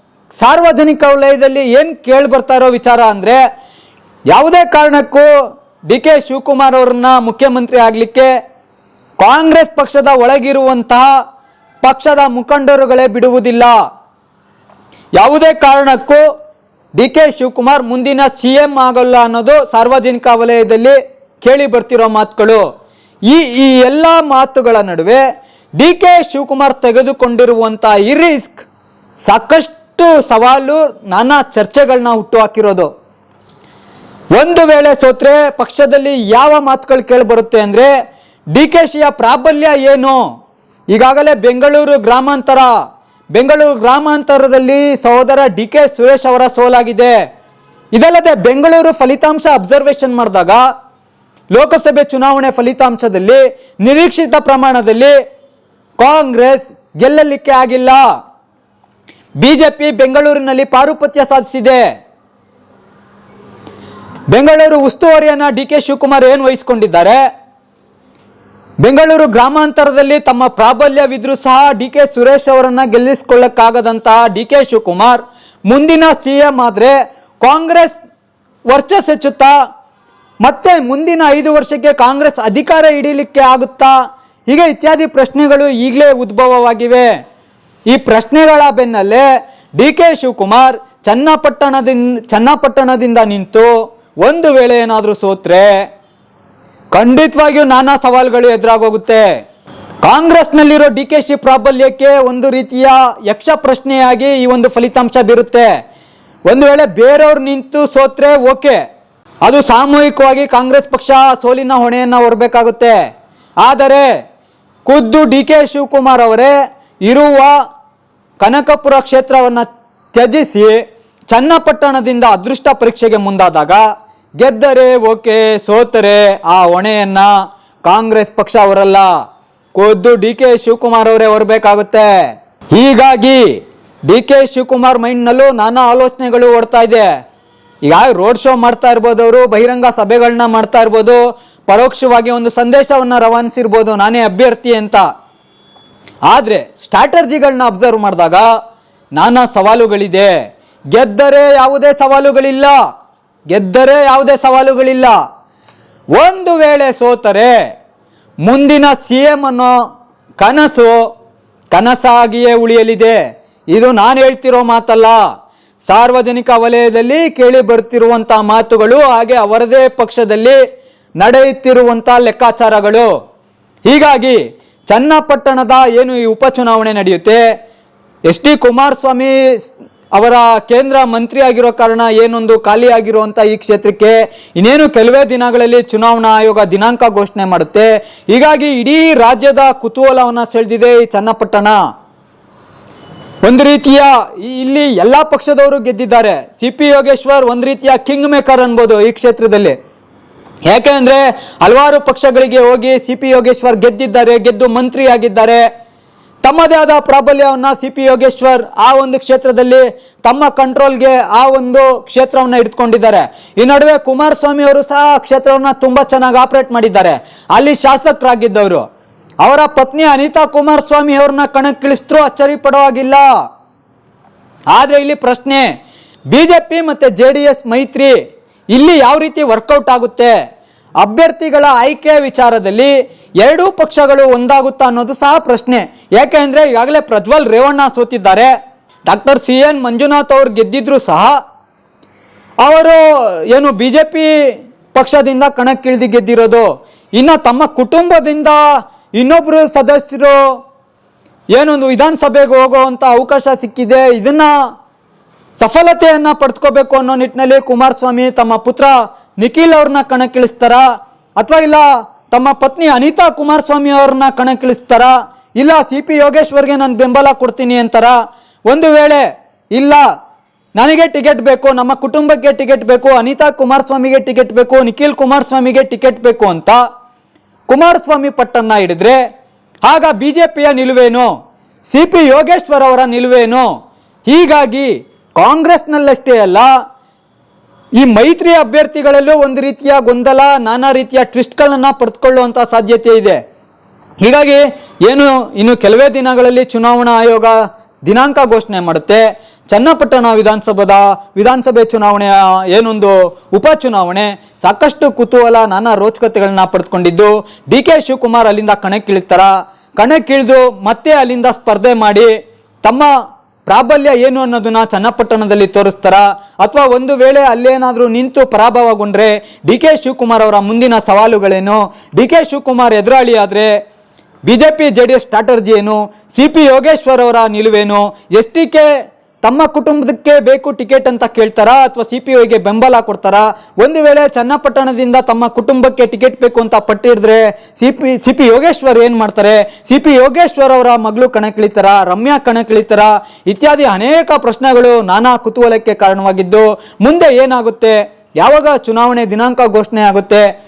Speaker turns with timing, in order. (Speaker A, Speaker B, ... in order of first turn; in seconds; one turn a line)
Speaker A: 0.3-3.4
Speaker A: 4.3-5.3
Speaker A: 5.9-8.3
Speaker A: 9.2-11.1
Speaker A: 11.8-13.8
Speaker A: 15.2-16.2
Speaker A: 16.9-22.6
Speaker A: 23.3-25.2
Speaker A: 25.8-28.6
Speaker A: 29.2-32.9
Speaker A: 34.4-37.9
Speaker A: 38.5-40.2
Speaker A: 40.9-42.7
Speaker A: 43.3-47.2
Speaker A: 47.9-50.6
Speaker A: 51.5-55.1
Speaker A: 56.0-58.0
Speaker A: 59.4-61.9
Speaker A: 64.3-67.2
Speaker A: 68.8-77.9
Speaker A: 78.7-79.5
Speaker A: 80.4-83.9
Speaker A: 84.5-87.1
Speaker A: 87.9-93.7
Speaker A: 94.2-95.7
Speaker A: 96.9-99.3
Speaker A: 100.0-105.7
Speaker A: 106.5-108.8
Speaker A: 109.4-113.0
Speaker A: 113.6-114.1
Speaker A: 114.8-117.5
Speaker A: 118.4-123.8
Speaker A: 124.4-127.3
Speaker A: 127.8-129.1
Speaker A: 129.7-132.2
Speaker A: 132.7-137.1
Speaker A: 137.8-145.0
Speaker A: 146.3-148.5
Speaker A: 149.2-150.3
Speaker A: 150.9-152.8
Speaker A: 153.5-155.2
Speaker A: 156.2-157.5
Speaker A: 158.4-159.7
Speaker A: 160.4-161.0
Speaker A: 161.7-163.2
Speaker A: 163.7-165.2
Speaker A: 165.9-170.6
Speaker A: 171.2-173.1
Speaker A: 173.9-177.4
Speaker A: 178.3-191.8
Speaker A: 193.4-199.8
Speaker A: 200.7-205.6
Speaker A: 206.4-218.8
Speaker A: 219.4-223.2
Speaker A: 224.7-225.7
Speaker A: 226.3-228.1
Speaker A: 228.7-230.3
Speaker A: 231.0-238.5
Speaker A: 239.1-241.3
Speaker A: 242.6-244.3
Speaker A: 244.9-248.6
Speaker A: 249.2-250.4
Speaker A: 251.5-254.5
Speaker A: 255.6-260.8
Speaker A: 261.4-268.1
Speaker A: 268.7-270.0
Speaker A: 270.8-276.8
Speaker A: 277.7-279.2
Speaker A: 279.8-281.3
Speaker A: 281.9-283.7
Speaker A: 284.3-286.7
Speaker A: 288.0-293.4
Speaker A: 294.2-312.3
Speaker A: 312.8-313.1
Speaker A: 313.6-323.7
Speaker A: 324.4-328.9
Speaker A: 329.4-350.5